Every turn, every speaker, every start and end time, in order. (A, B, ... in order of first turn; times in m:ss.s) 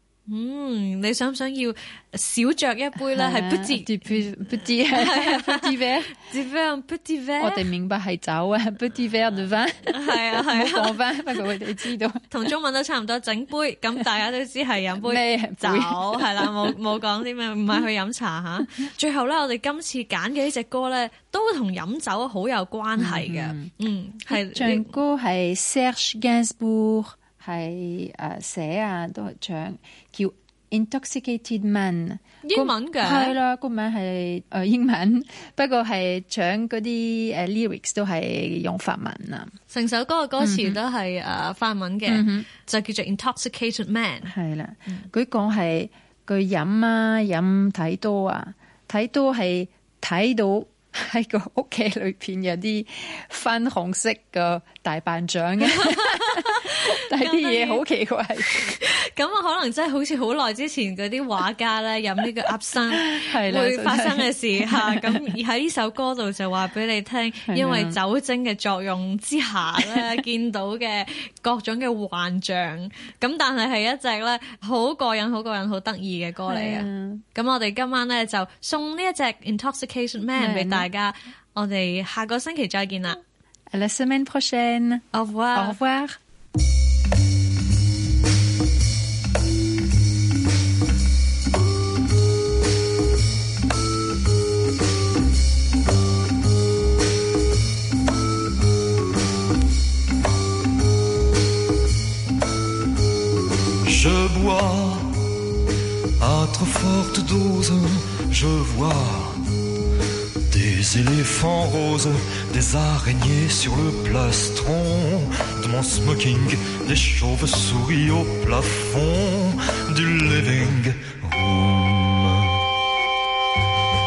0:00.3-0:04.2 A
0:03.1-0:06.1 B
0:04.9-0:07.6 A
0:07.4-0:12.2 B
0:09.9-0:11.0 A
0:12.3-0:24.9 A
0:15.0-0:16.7 B
0:23.0-0:23.7 B
0:24.3-0:39.5 B
0:32.4-0:33.4 A
0:39.7-0:44.3 A
0:40.4-0:40.8 B
0:42.1-0:42.5 B
0:44.2-0:58.8 B
0:55.7-0:57.8 A
0:58.4-1:23.2 A
1:02.9-1:05.2 B
1:07.5-1:08.0 B
1:16.5-1:17.2 B
1:20.4-1:20.9 B
1:23.7-1:26.2 B
1:25.1-1:25.8 A
1:43.8-1:45.5 C
1:46.2-1:49.5 C
1:50.4-2:02.6 C